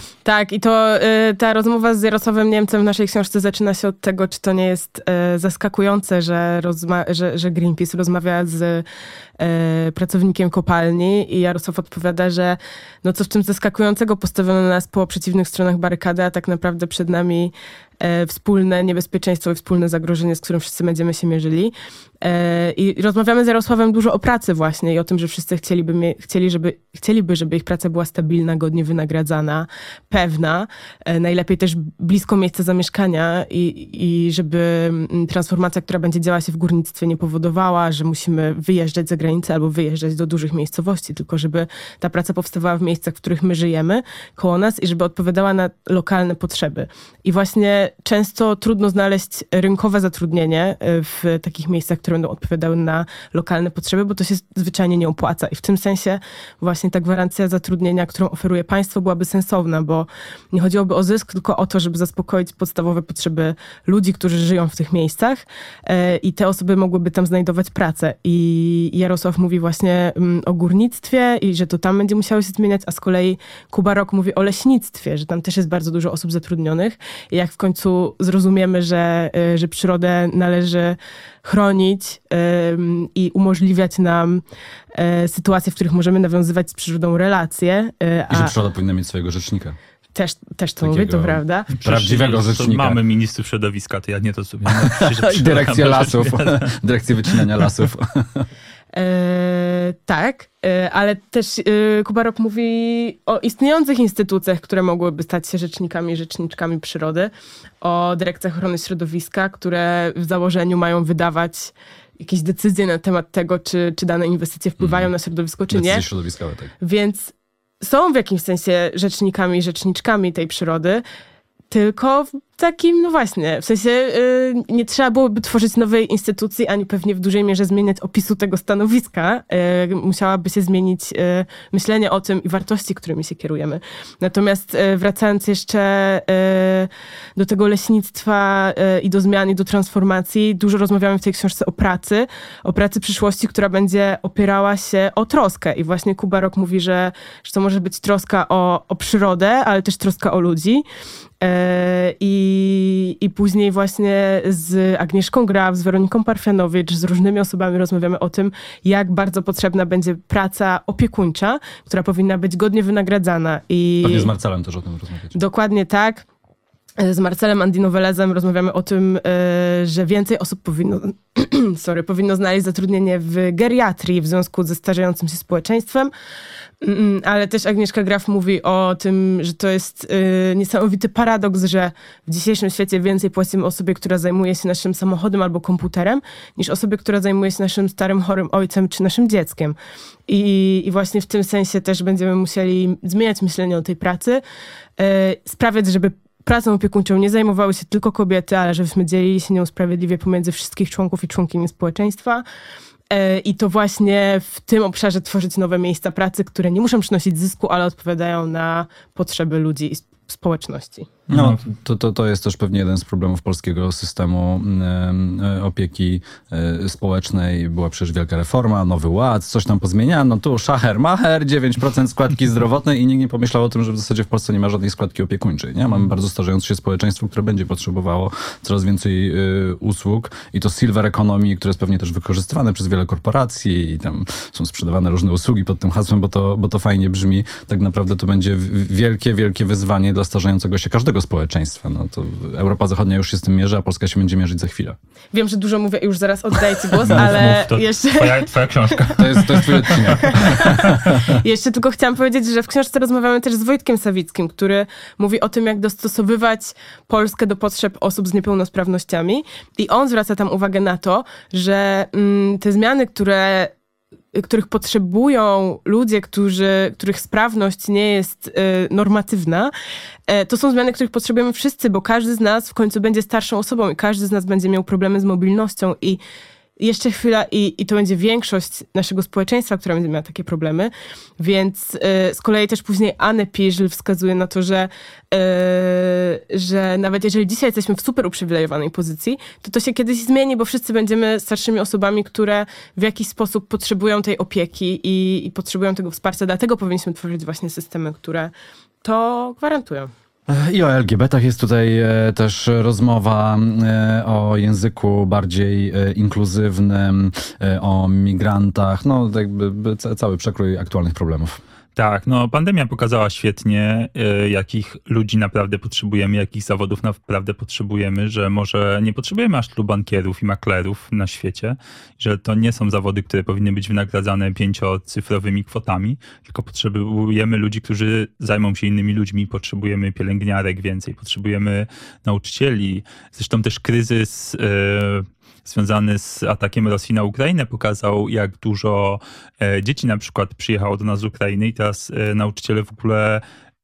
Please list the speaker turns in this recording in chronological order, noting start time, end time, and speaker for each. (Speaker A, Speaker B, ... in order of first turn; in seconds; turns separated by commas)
Speaker A: 0.2-8.8, Speaker A: 9.4-84.4, Speaker A: 84.9-88.5, Speaker B: 88.3-89.8, Speaker A: 90.2-91.7, Speaker B: 90.8-93.0, Speaker C: 91.8-96.7, Speaker B: 94.7-98.5, Speaker A: 98.9-116.0, Speaker B: 114.8-115.1, Speaker B: 115.7-116.7, Speaker A: 116.8-121.0, Speaker A: 121.7-150.8, Speaker A: 151.4-164.3, Speaker B: 164.0-165.4, Speaker A: 165.3-166.3, Speaker A: 167.0-176.1, Speaker A: 176.8-189.8, Speaker A: 190.3-194.4, Speaker A: 195.0-202.4, Speaker A: 203.1-211.1, Speaker C: 211.3-211.6, Speaker B: 211.3-245.0, Speaker A: 245.3-248.5, Speaker C: 247.1-250.6, Speaker B: 249.2-251.3, Speaker A: 250.2-263.7, Speaker A: 264.3-269.7, Speaker A: 270.3-276.2, Speaker A: 276.8-298.5, Speaker A: 299.0-300.1, Speaker B: 300.5-311.6, Speaker C: 312.0-343.4